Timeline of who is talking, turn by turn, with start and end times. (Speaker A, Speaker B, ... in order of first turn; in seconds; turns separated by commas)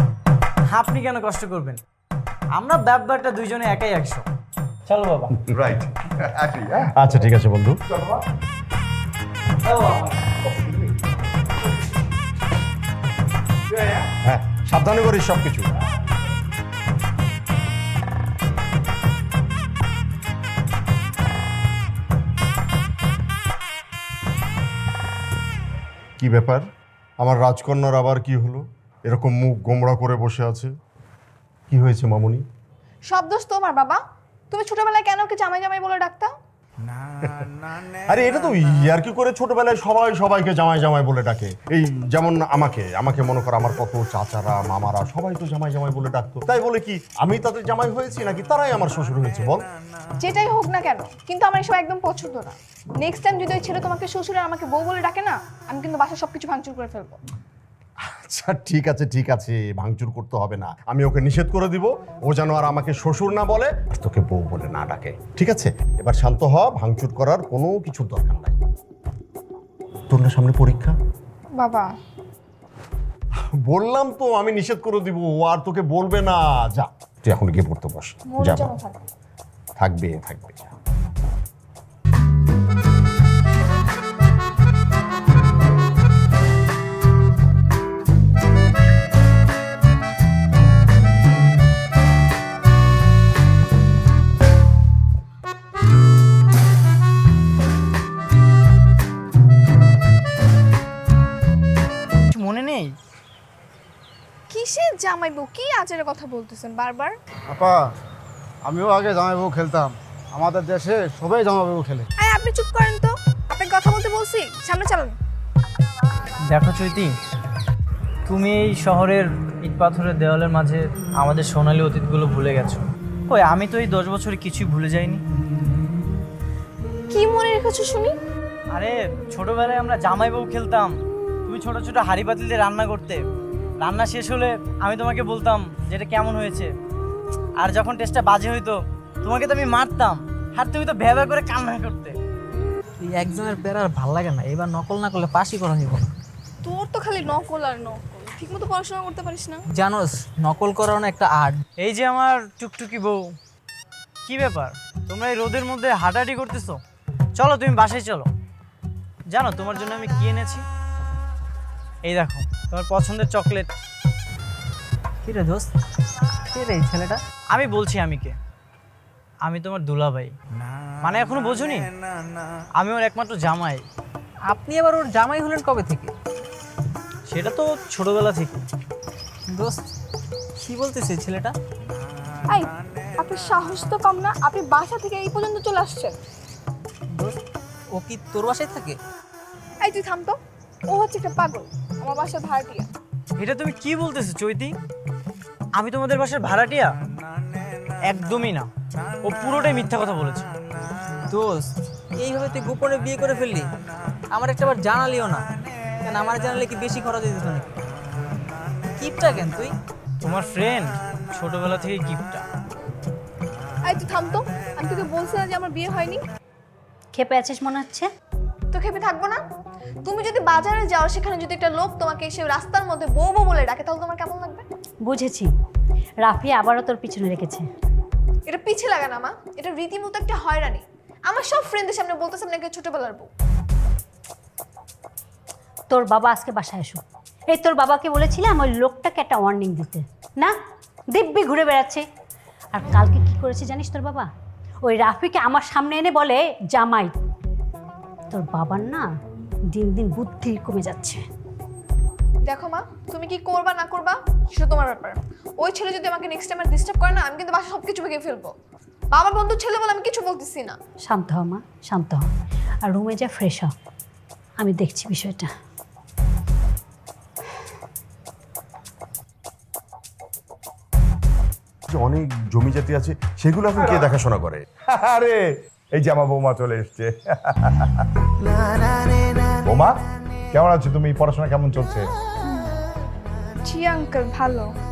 Speaker A: 0.7-1.8, Speaker A: 2.5-4.2, Speaker A: 4.9-5.4, Speaker B: 5.5-7.3, Speaker C: 6.9-7.8, Speaker B: 7.9-8.2, Speaker B: 10.3-10.8, Speaker C: 14.2-15.7, Speaker C: 26.2-26.6, Speaker C: 27.2-30.7, Speaker C: 31.7-32.4, Speaker D: 33.0-36.3, Speaker C: 38.1-49.7, Speaker D: 50.2-57.2, Speaker C: 58.0-68.6, Speaker C: 70.1-71.0, Speaker D: 71.5-71.9, Speaker C: 73.5-78.7, Speaker D: 78.3-79.0, Speaker C: 79.8-80.7, Speaker A: 102.3-102.9, Speaker D: 104.5-107.1, Speaker E: 107.5-107.9, Speaker E: 108.6-112.1, Speaker D: 112.2-115.2, Speaker A: 116.5-117.1, Speaker A: 118.3-125.2, Speaker D: 127.1-128.1, Speaker A: 128.7-133.2, Speaker A: 133.8-136.7, Speaker A: 137.6-142.2, Speaker F: 143.0-146.1, Speaker D: 146.6-149.6, Speaker F: 149.7-151.6, Speaker A: 151.8-153.2, Speaker A: 154.2-156.8, Speaker A: 157.3-158.3, Speaker A: 159.3-160.6, Speaker A: 162.0-163.7, Speaker F: 165.2-165.7, Speaker F: 166.5-167.2, Speaker A: 167.5-168.3, Speaker A: 169.4-170.3, Speaker A: 171.0-171.9, Speaker A: 172.8-173.8, Speaker F: 174.5-176.1, Speaker A: 177.3-178.6, Speaker F: 179.5-179.8, Speaker F: 180.6-181.5, Speaker D: 182.5-186.2, Speaker F: 187.1-187.4, Speaker F: 187.9-189.0, Speaker D: 189.8-192.9, Speaker A: 193.4-194.7, Speaker A: 195.8-196.9, Speaker A: 198.1-198.7, Speaker A: 199.2-200.5, Speaker F: 201.3-203.7, Speaker F: 204.3-205.4, Speaker F: 206.0-207.7, Speaker F: 209.0-209.7, Speaker A: 210.2-212.4, Speaker D: 213.8-216.2, Speaker G: 217.1-218.1, Speaker D: 218.7-219.4, Speaker D: 220.0-224.6, Speaker G: 225.0-225.5, Speaker G: 226.2-227.7, Speaker D: 228.4-233.3, Speaker G: 235.9-240.5, Speaker G: 241.1-242.0, Speaker G: 242.7-244.3, Speaker G: 244.8-247.1, Speaker G: 248.3-249.1, Speaker G: 249.7-251.2, Speaker D: 252.4-258.5, Speaker D: 259.1-260.8, Speaker G: 261.0-262.3, Speaker G: 262.8-263.7, Speaker G: 264.6-265.5, Speaker C: 271.9-274.6, Speaker B: 273.8-274.1, Speaker B: 274.9-278.0, Speaker B: 279.6-279.9, Speaker B: 280.5-282.1, Speaker D: 283.6-284.7